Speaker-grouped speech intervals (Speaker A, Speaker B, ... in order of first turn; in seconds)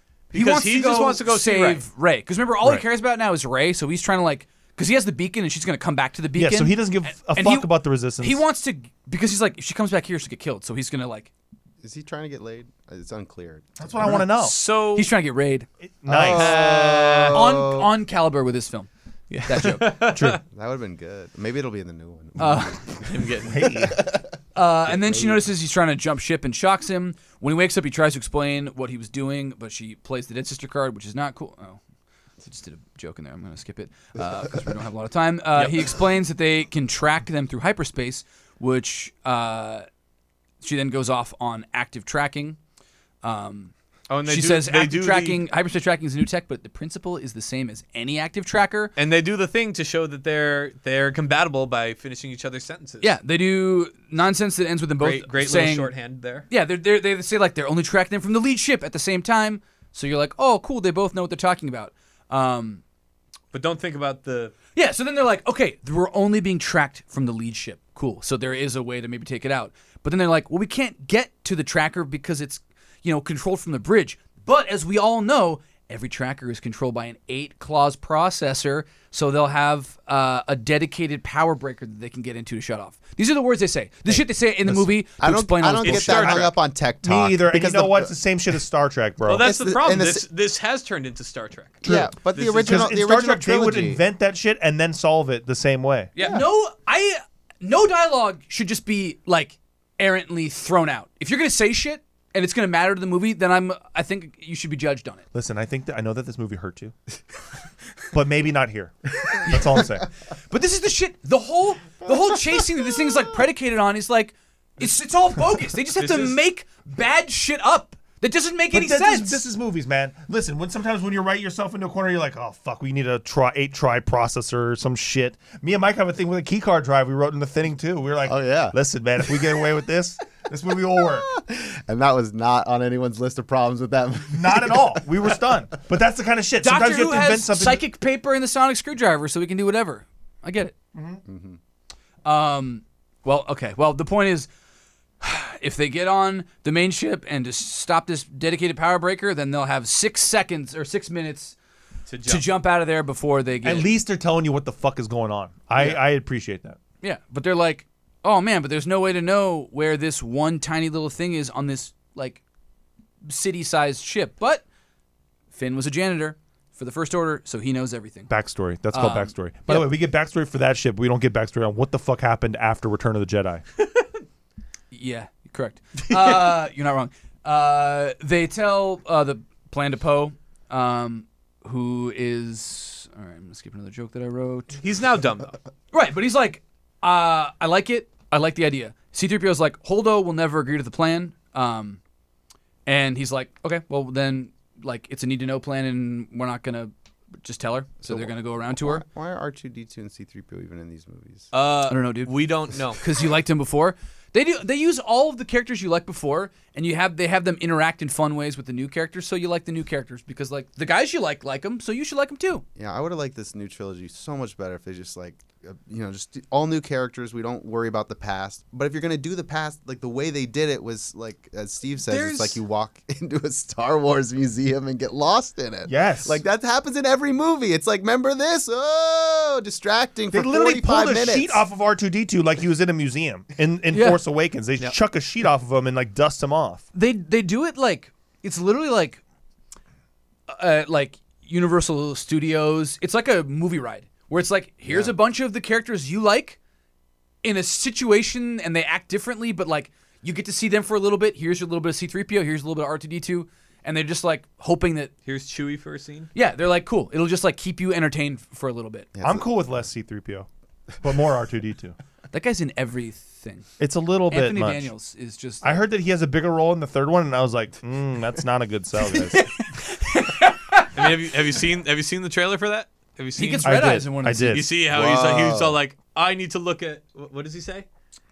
Speaker A: 0.3-1.8, 14.0-15.1, 16.3-17.4, 19.3-20.4, 23.0-23.9, 24.9-25.4, 35.5-35.9, 44.1-45.4, 49.0-53.1, 55.0-56.5, 63.5-64.5, 85.8-86.5, 89.2-92.9, 115.9-116.4, 152.1-152.4, 176.1-176.5, 184.8-185.6, 201.5-203.0, 222.1-222.6, 255.2-256.3, 270.9-273.9, 274.5-277.9
Speaker B: 0.3-11.3, 14.9-15.7, 17.3-18.9, 19.4-19.9, 22.4-22.9, 24.5-31.8, 32.4-39.9, 40.6-42.6, 43.2-43.7, 44.2-48.9, 53.0-55.9, 56.5-62.8, 64.7-86.3, 96.2-105.2, 109.4-109.8, 110.5-119.4, 136.6-140.7, 142.2-144.5, 145.2-151.6, 152.2-153.9, 155.8-156.0, 157.0-162.4, 163.2-164.6, 165.5-168.3, 168.9-169.9, 174.9-184.8, 185.9-192.0, 192.8-199.0, 201.9-212.6, 233.9-234.2, 236.9-239.2, 240.5-246.6, 247.4-255.1, 256.3-259.1, 262.3-263.7, 264.3-265.8, 269.1-271.1, 273.4-274.6
Speaker C: 6.3-8.4, 13.8-14.5, 15.8-16.6, 20.1-20.4, 23.4-24.0, 86.2-86.5, 87.0-89.5, 91.8-96.1, 105.3-106.9, 108.1-110.1, 118.7-131.3, 134.3-137.8, 140.9-141.2, 153.6-156.8, 168.3-173.6, 225.9-226.4, 230.3-236.8, 259.2-260.5, 261.0-261.9, 263.8-264.9, 265.6-269.4, 273.6-274.7
Speaker D: 11.8-14.1, 16.1-17.9, 20.5-24.2, 84.7-88.1, 89.4-90.2, 91.8-94.0, 128.2-129.6, 131.0-135.6, 141.2-141.6, 198.0-201.5, 212.8-231.6, 244.9-245.1, 259.1-259.5, 269.1-269.3, 274.9-275.8